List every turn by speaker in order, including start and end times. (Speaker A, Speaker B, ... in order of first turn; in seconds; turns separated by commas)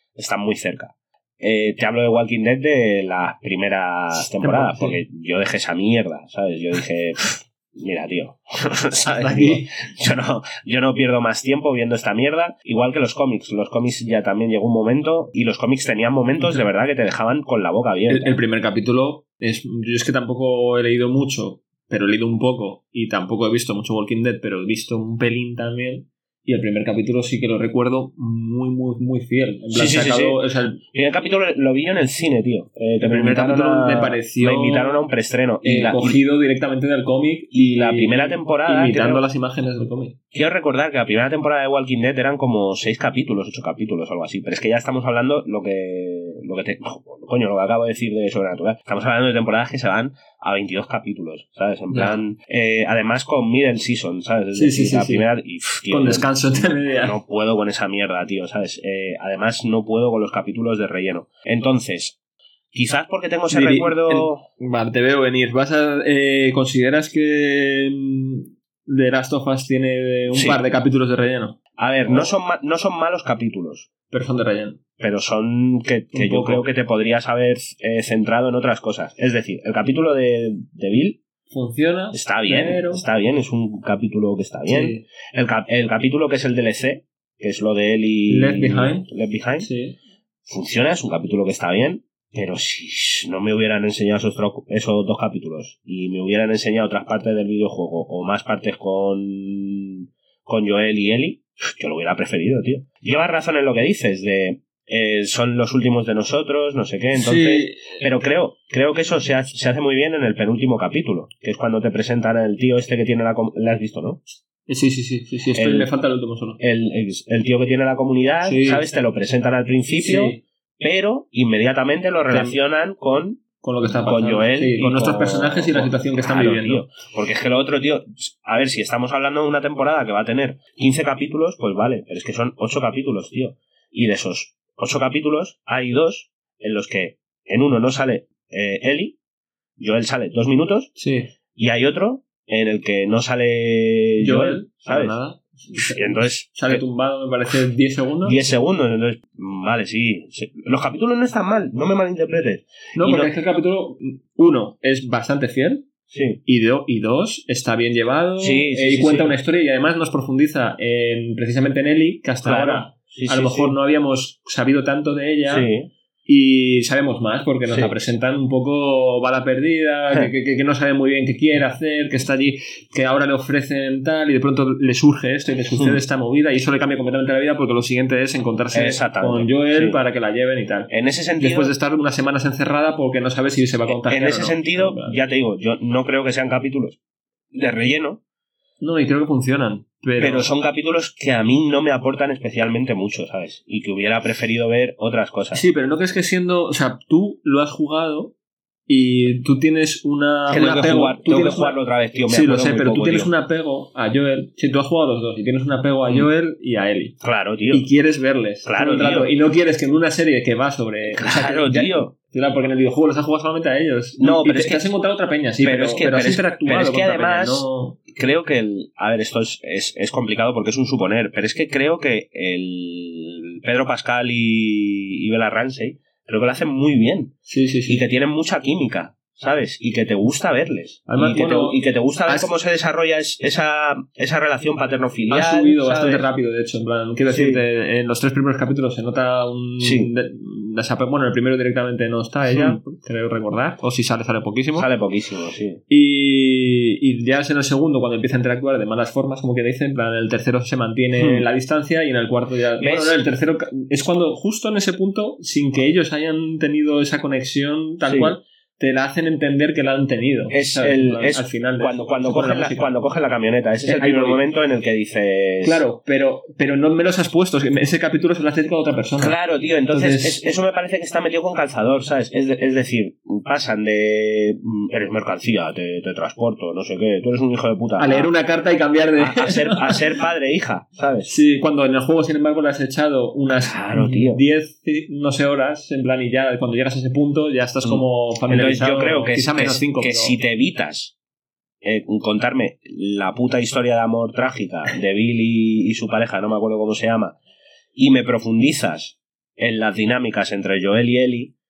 Speaker A: 0.2-18.4, Speaker B: 4.1-5.0, Speaker B: 9.1-9.7, Speaker B: 18.1-30.8, Speaker A: 29.7-36.2, Speaker B: 33.0-35.0, Speaker B: 35.6-40.2, Speaker A: 37.5-39.2, Speaker A: 40.3-62.1, Speaker B: 51.9-52.2, Speaker B: 54.5-55.3, Speaker B: 55.9-57.2, Speaker A: 62.7-64.5, Speaker B: 63.5-72.3, Speaker A: 70.3-70.6, Speaker A: 71.8-73.9, Speaker B: 74.1-74.8, Speaker A: 75.0-81.2, Speaker B: 76.1-76.7, Speaker B: 81.5-83.0, Speaker A: 82.1-89.7, Speaker B: 84.7-85.0, Speaker B: 88.3-89.1, Speaker B: 89.6-90.0, Speaker A: 90.5-114.2, Speaker B: 107.1-108.0, Speaker B: 114.7-116.6, Speaker A: 115.5-115.9, Speaker A: 116.6-139.2, Speaker B: 118.4-118.9, Speaker B: 120.0-120.4, Speaker B: 122.3-122.6, Speaker B: 123.6-126.9, Speaker A: 139.8-140.9, Speaker B: 141.0-141.3, Speaker A: 141.6-145.2, Speaker B: 144.2-148.4, Speaker A: 145.8-146.8, Speaker A: 148.2-153.3, Speaker B: 153.0-155.9, Speaker A: 156.1-156.4, Speaker B: 156.5-165.7, Speaker A: 158.4-159.4, Speaker A: 162.4-163.8, Speaker A: 165.5-165.9, Speaker B: 166.3-185.2, Speaker A: 167.7-168.0, Speaker A: 175.8-176.0, Speaker A: 178.7-180.0, Speaker A: 180.9-181.7, Speaker A: 183.9-187.0, Speaker A: 187.5-188.2, Speaker B: 188.8-190.5, Speaker A: 190.2-195.6, Speaker B: 195.5-198.3, Speaker B: 198.9-207.2, Speaker A: 200.5-203.3, Speaker A: 207.2-207.9, Speaker B: 207.7-218.0, Speaker A: 208.6-209.3, Speaker A: 211.1-212.1, Speaker A: 214.2-214.9, Speaker A: 215.6-227.3, Speaker B: 227.5-228.0, Speaker A: 227.9-236.3, Speaker B: 231.1-232.5, Speaker B: 235.3-244.9, Speaker A: 237.3-237.6, Speaker A: 239.8-240.1, Speaker A: 242.5-242.8, Speaker A: 244.7-245.8, Speaker B: 245.9-262.9, Speaker A: 251.2-251.5, Speaker A: 252.8-253.2, Speaker A: 258.0-258.4, Speaker A: 260.5-265.8, Speaker B: 263.8-264.4, Speaker B: 265.6-269.4, Speaker A: 269.2-278.3, Speaker B: 269.9-270.4, Speaker B: 278.0-280.0, Speaker A: 279.2-281.3, Speaker B: 281.3-290.4, Speaker A: 283.5-284.4, Speaker A: 287.8-291.1, Speaker A: 291.8-297.4, Speaker A: 298.0-301.5